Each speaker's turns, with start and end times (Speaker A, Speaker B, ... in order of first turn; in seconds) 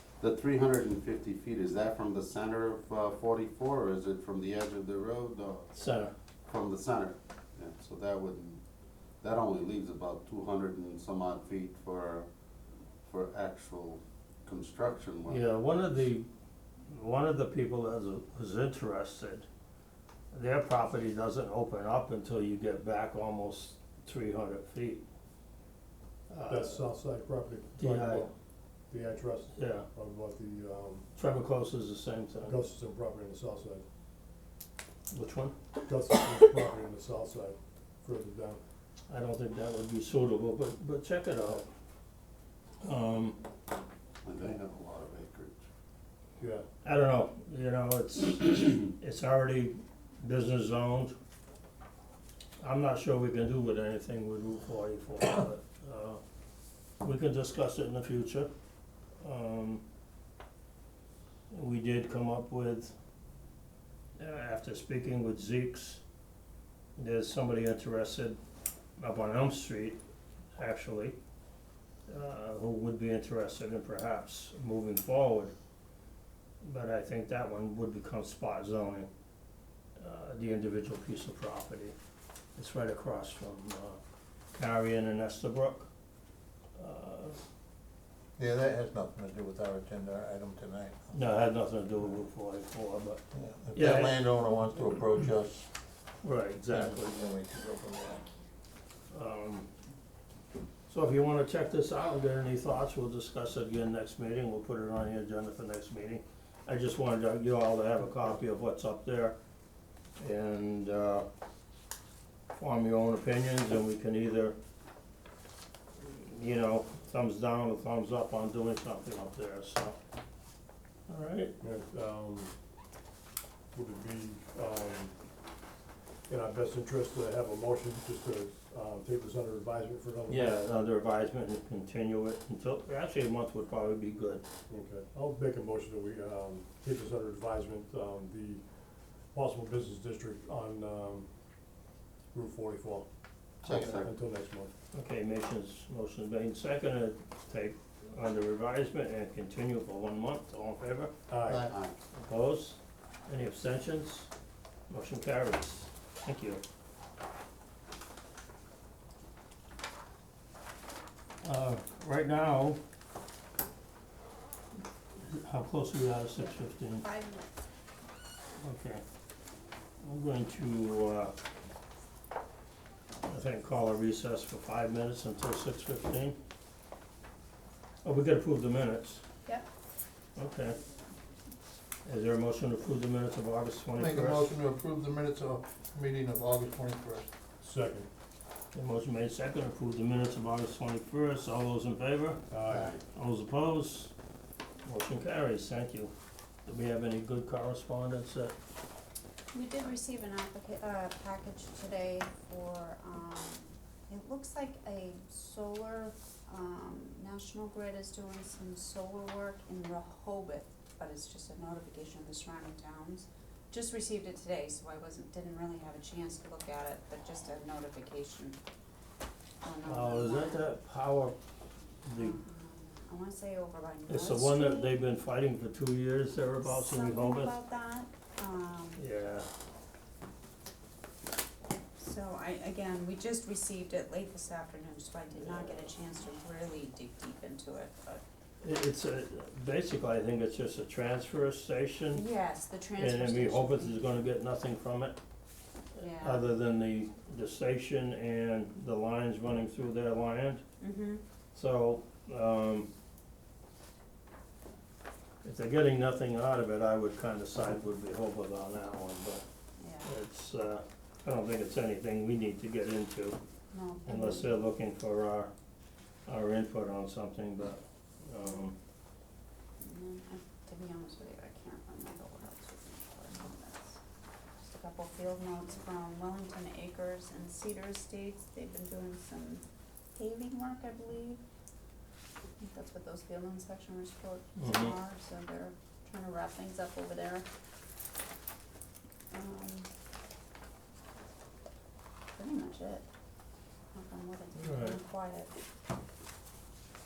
Speaker A: 0.2-5.7, 6.5-8.6, 9.2-12.3, 13.1-15.4, 44.2-45.6, 143.6-144.1, 151.7-151.9
Speaker B: 5.7-6.1, 15.3-16.3, 16.9-19.5, 20.3-25.0, 26.3-26.8, 27.8-28.3, 29.6-29.9, 31.2-32.6, 35.1-35.6, 39.1-41.7, 42.8-43.4, 46.8-51.1, 52.6-56.2, 57.0-58.5, 59.2-59.8, 61.5-62.9, 64.2-66.0, 67.0-68.4, 69.0-70.0, 70.6-71.2, 72.1-75.5, 76.6-79.1, 80.0-82.0, 82.6-84.0, 84.6-85.9, 86.8-87.4, 91.1-93.2, 93.7-94.2, 96.2-97.3, 99.1-99.7, 100.9-109.4, 110.2-111.3, 112.5-114.6, 116.0-120.0, 121.1-121.5, 130.3-134.4, 144.9-151.1, 152.1-154.3, 154.9-156.6, 161.4-162.8, 165.2-167.1, 168.6-169.0, 170.0-171.3, 173.2-176.4, 178.0-179.2, 180.4-180.8, 182.1-184.5, 188.7-194.1, 194.8-196.1, 196.7-198.6, 219.9-221.4, 222.1-222.4, 224.1-227.6, 229.0-229.5, 235.4-235.9, 238.6-242.2, 243.0-245.2, 246.2-250.6, 251.5-252.9, 255.4-259.4, 260.0-263.4, 264.1-265.5, 266.3-268.8, 284.6-284.9, 294.6-295.0
Speaker C: 26.5-28.3, 28.9-31.1, 32.4-33.8, 35.9-38.6, 46.4-46.7, 121.6-122.5, 123.7-125.1, 126.3-130.6, 134.7-138.6, 139.3-141.3, 142.3-143.1, 143.6-144.7, 151.3-151.7, 187.6-188.1, 192.5-193.0
Speaker D: 88.4-91.2, 93.3-95.7, 96.7-98.2, 151.5-151.7, 184.0-187.3
Speaker E: 166.4-167.5, 199.5-218.6, 219.6-220.7, 222.2-224.9, 226.6-229.0, 232.0-238.2, 242.1-244.2, 246.0-246.4, 250.8-251.2, 259.8-260.1, 263.7-264.5, 269.8-274.0, 274.6-279.6, 280.1-281.4, 282.6-287.5, 289.3-289.9, 292.4-293.1, 293.9-295.5